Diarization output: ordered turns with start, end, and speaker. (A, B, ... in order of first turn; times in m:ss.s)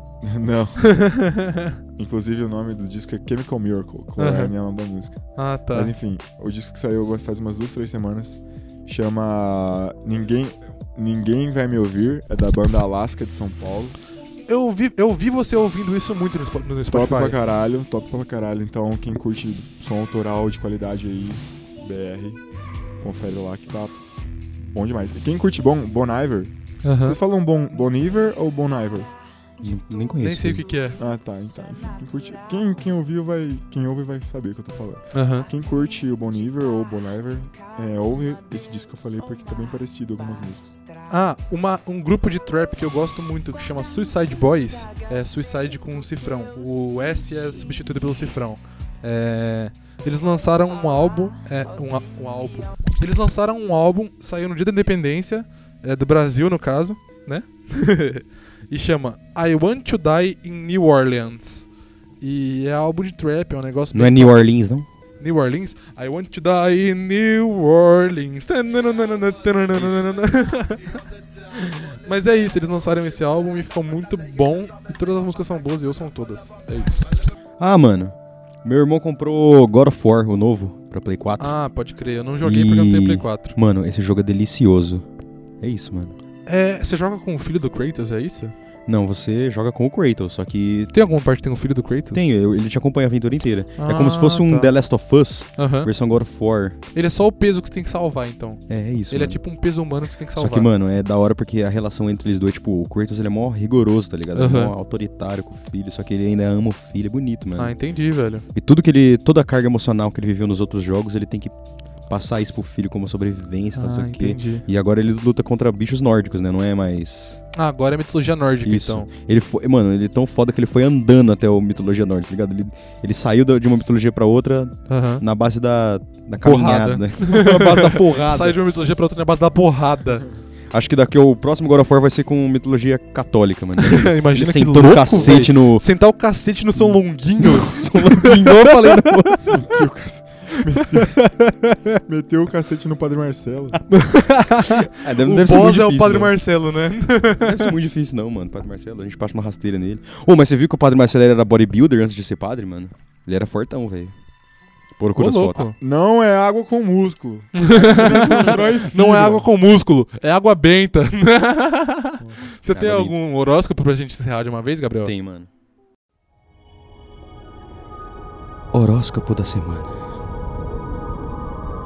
0:00.2-0:00.9 A
0:00.8-0:01.7 B
0:02.0-0:14.0 A
0:04.2-0:04.5 B
0:05.4-0:05.9 B
0:14.5-0:17.4 B
0:16.9-0:22.4 A
0:23.0-0:24.0 A
0:24.6-0:29.1 A
0:26.8-0:27.2 B
0:29.6-0:30.6 C
0:30.2-0:31.0 B
0:31.0-0:40.6 A
0:35.1-0:35.4 B
0:41.1-1:01.7 B
1:02.2-1:04.4 B
1:03.9-1:04.9 C
1:05.2-1:11.0 B
1:09.7-1:10.0 C
1:11.5-1:16.9 B
1:17.6-1:21.5 C
1:21.4-1:23.5 B
1:22.4-1:25.0 C
1:25.6-1:26.2 C
1:26.4-1:28.5 B
1:28.9-1:30.9 C
1:30.9-1:32.2 B
1:32.1-1:36.8 C
1:33.8-1:34.7 B
1:35.6-1:35.9 B
1:36.9-1:40.7 B
1:38.7-1:39.4 C
1:40.4-1:47.7 C
1:44.3-1:44.7 B
1:47.6-1:48.4 B
1:48.5-1:51.5 C
1:52.1-1:57.4 C
1:53.8-1:54.6 B
1:57.5-1:59.1 B
1:58.6-2:08.6 C
2:04.9-2:05.2 B
2:06.4-2:10.3 B
2:10.7-2:15.8 C
2:13.8-2:19.6 B
2:16.8-2:19.6 C
2:19.5-2:21.3 A
2:20.8-2:21.8 B
2:22.0-2:23.8 A
2:23.9-2:27.7 B
2:24.9-2:26.4 C
2:27.4-2:34.1 C
2:35.0-2:35.6 C
2:35.2-2:35.8 B
2:35.8-2:39.4 A
2:37.6-2:45.1 B
2:42.7-2:43.2 C
2:45.0-2:45.5 C
2:48.7-2:50.0 C